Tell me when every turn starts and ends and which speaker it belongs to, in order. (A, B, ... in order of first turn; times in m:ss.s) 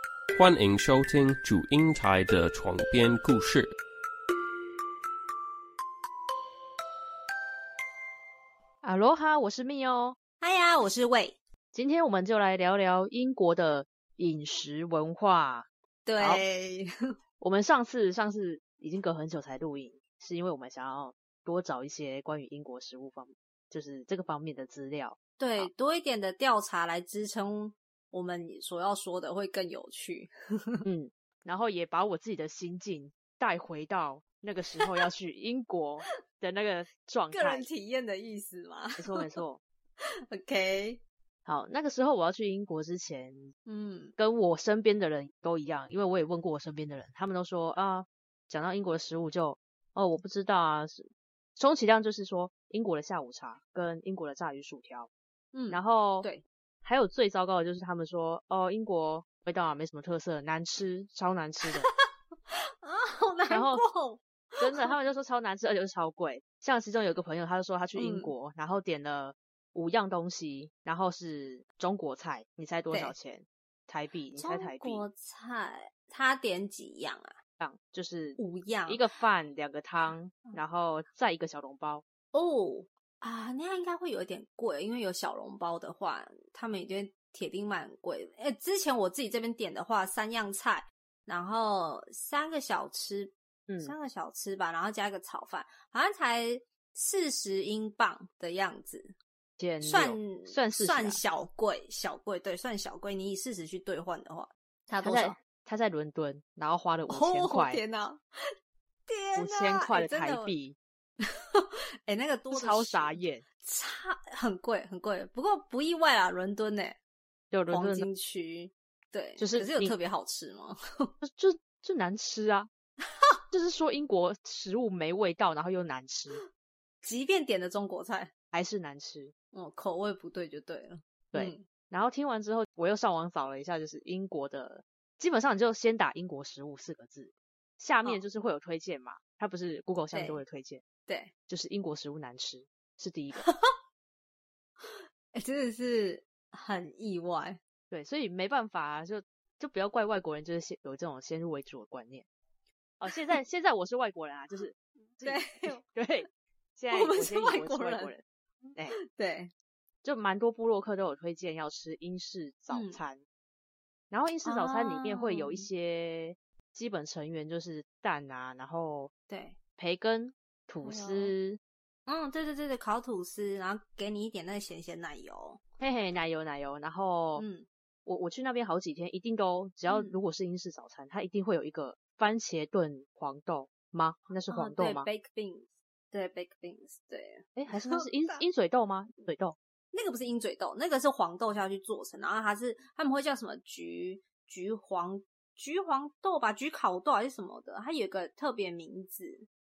0:00.4-0:03.7 A
0:08.8-0:10.2 B
0:10.4-0:11.4 C
0:11.7-0:15.7 B
0:16.1-0:16.9 C
0:17.4-0:25.7 B
0:25.4-0:30.8 C
0:30.8-0:37.7 B
0:37.3-0:39.2 C
0:39.0-0:39.6 B
0:40.3-0:41.0 C
0:41.4-0:43.5 B
0:43.7-0:44.2 C
0:44.2-0:55.1 B
0:55.5-0:56.4 C
0:55.7-0:56.3 B
0:56.8-1:01.9 B
1:02.5-1:04.9 C
1:03.5-1:03.8 B
1:04.6-1:15.0 B
1:08.0-1:08.3 C
1:14.4-1:17.4 C
1:17.6-1:22.0 B
1:18.4-1:19.0 C
1:22.3-1:39.2 C
1:33.7-1:34.0 B
1:39.6-1:41.2 B
1:39.8-1:45.4 C
1:45.0-1:47.8 B
1:47.1-1:48.2 C
1:49.1-1:50.6 C
1:49.4-1:50.8 B
1:51.2-1:57.0 C
1:52.5-1:53.4 B
1:57.5-1:58.1 B
1:57.7-2:01.1 C
1:59.4-1:59.9 B
2:01.2-2:02.7 B
2:03.5-2:06.4 B
2:07.0-2:08.3 C
2:08.5-2:09.3 B
2:09.5-2:11.6 C
2:11.3-2:20.8 B
2:20.1-2:20.4 C
2:21.1-2:21.3 C
2:21.5-2:23.5 B
2:23.4-2:23.7 C
2:24.8-2:27.6 C
2:27.9-2:32.3 B
2:33.0-2:39.0 B
2:35.2-2:35.8 C
2:36.9-2:38.1 C
2:39.0-2:39.5 C
2:40.0-2:43.2 B
2:42.7-2:43.0 C
2:44.1-2:49.1 B
2:44.4-2:45.7 C
2:49.3-2:49.6 C
2:49.8-2:51.6 B
2:50.8-2:51.3 C
2:52.1-2:55.6 C
2:55.8-2:57.4 B
2:57.4-2:57.7 C
2:58.1-3:05.1 B
2:59.9-3:00.2 C
3:04.5-3:08.4 C
3:07.6-3:09.6 B
3:09.9-3:19.5 C